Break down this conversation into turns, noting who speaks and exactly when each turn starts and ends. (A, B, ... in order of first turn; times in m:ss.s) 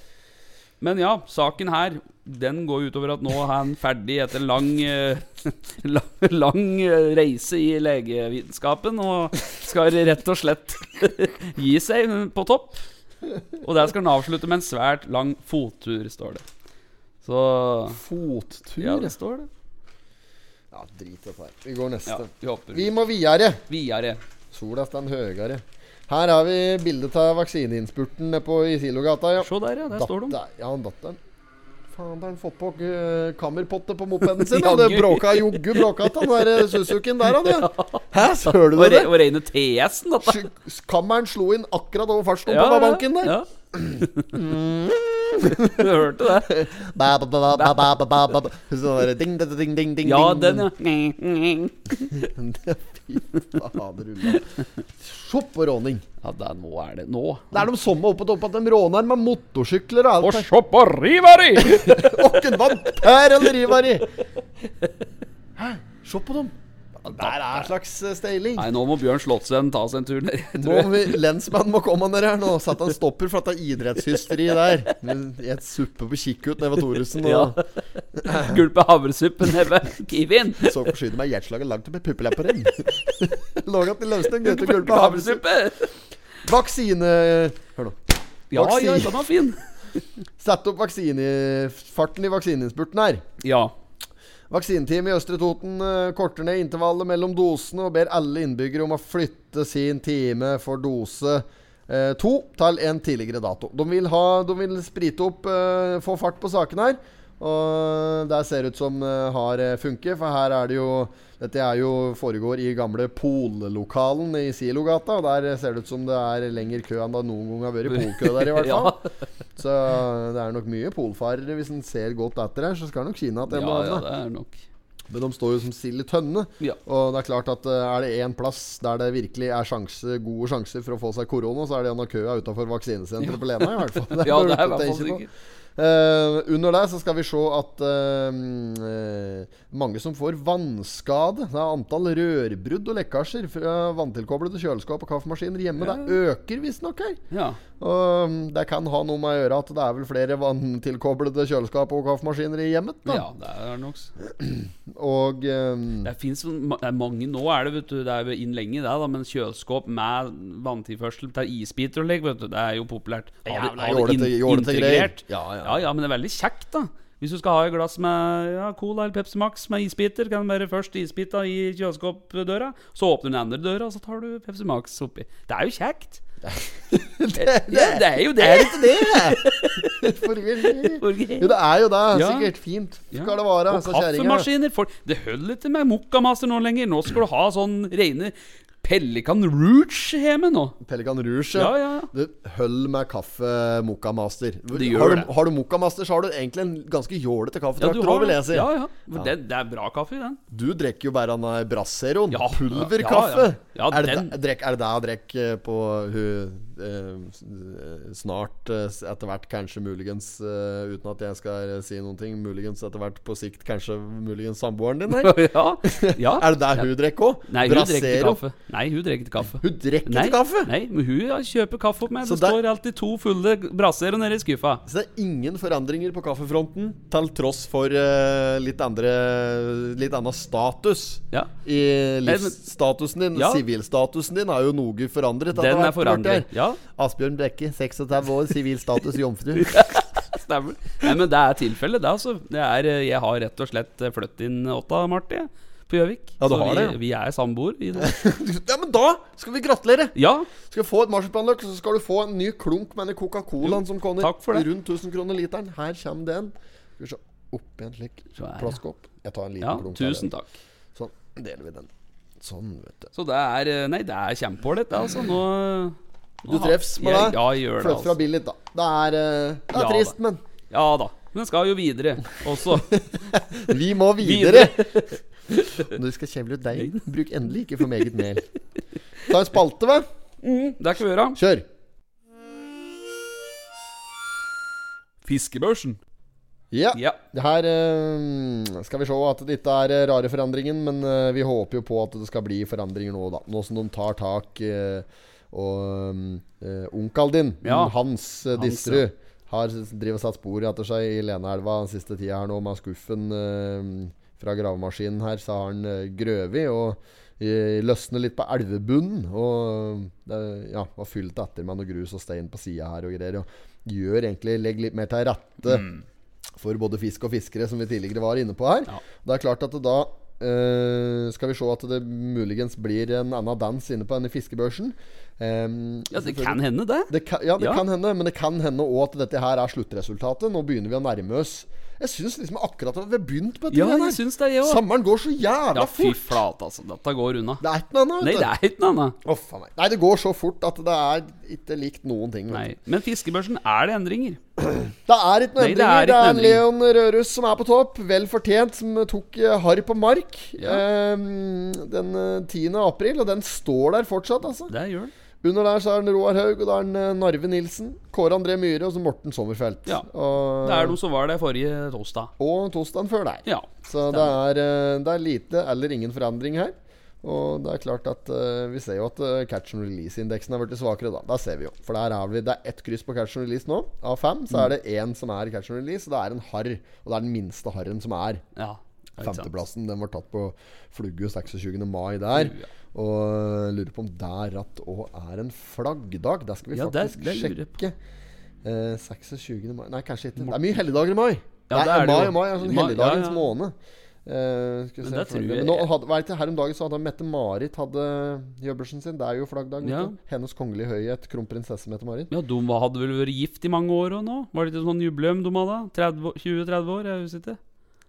0:00.8-0:12.8 A
0:13.6-0:16.4 A
0:17.2-0:18.0 A
0:17.9-0:19.1 B
0:18.8-0:19.5 A
0:20.7-0:23.6 B
0:22.1-0:22.9 A
0:23.7-0:24.2 A
0:24.5-0:31.2 B
0:29.4-0:30.4 A
0:31.9-0:39.1 B
0:34.2-0:40.4 A
0:40.2-0:50.7 B
0:42.5-0:43.5 A
0:44.0-0:44.4 A
0:45.5-0:46.6 A
0:50.0-0:52.3 A
0:52.1-0:56.0 B
0:56.2-0:57.7 A
0:57.5-1:00.5 B
1:00.2-1:02.4 A
1:01.6-1:04.1 B
1:05.6-1:08.7 B
1:07.0-1:07.7 A
1:08.6-1:11.2 A
1:10.6-1:17.6 B
1:17.1-1:20.9 A
1:18.2-1:18.6 B
1:20.6-1:25.4 B
1:24.4-1:25.9 A
1:26.4-1:29.2 B
1:28.5-1:30.0 A
1:30.4-1:33.2 B
1:33.4-1:33.7 A
1:34.5-1:59.0 B
1:57.9-1:59.1 A
1:59.6-2:04.1 B
2:03.5-2:04.6 A
2:05.1-2:27.2 B
2:13.2-2:15.3 A
2:25.8-2:26.2 A
2:27.3-2:27.6 A
2:27.8-2:33.2 B
2:33.0-2:34.1 A
2:34.2-2:36.1 B
2:36.0-2:56.2 A
2:43.4-2:45.8 B
2:56.4-3:04.5 B
2:57.3-3:01.5 A
3:02.1-3:02.5 A
3:03.1-3:10.8 A
3:10.8-3:19.3 B
3:11.5-3:12.1 A
3:14.7-3:15.3 A
3:17.8-3:20.4 A
3:20.5-3:38.4 B
3:22.3-3:24.3 A
3:35.1-3:36.9 A
3:37.5-3:44.8 A
3:39.5-3:40.7 B
3:42.2-3:42.6 B
3:44.8-3:59.9 B
3:52.2-3:52.6 A
3:53.3-3:53.6 A
3:55.5-3:56.8 A
3:59.6-4:08.1 A
4:06.4-4:07.0 B
4:08.0-4:20.3 B
4:10.2-4:10.5 A
4:13.6-4:14.7 A
4:18.4-4:18.8 A
4:19.6-4:20.6 A
4:20.9-4:23.1 B
4:23.1-4:28.2 A
4:26.4-4:30.4 B
4:29.7-4:30.1 A
4:30.7-4:33.0 A
4:32.6-4:35.0 B
4:34.2-4:35.9 A
4:35.7-4:38.4 B
4:39.2-4:40.0 B
4:40.4-4:41.4 A
4:41.3-4:41.6 B
4:45.2-4:46.0 A
4:46.7-5:15.9 B
4:46.9-4:47.2 A
4:57.6-4:57.9 A
4:58.5-4:59.0 A
5:15.7-5:16.0 A
5:16.6-5:36.4 B
5:26.1-5:27.8 A
5:33.7-5:34.8 A
5:35.7-5:37.6 A
5:37.6-5:38.5 B
5:38.2-5:39.2 A
5:39.2-5:42.7 B
5:42.5-5:44.4 A
5:44.6-5:54.7 B
5:45.6-5:46.6 A
5:54.7-5:55.1 A
5:55.4-6:01.0 B
6:00.6-6:02.3 A
6:02.4-6:18.4 B
6:03.4-6:04.3 A
6:18.6-6:19.5 A
6:19.2-6:27.9 B
6:22.3-6:22.7 A
6:26.7-6:27.8 A
6:28.6-6:42.3 B
6:31.7-6:33.5 A
6:35.0-6:35.9 A
6:39.8-6:40.2 A
6:42.3-6:47.6 A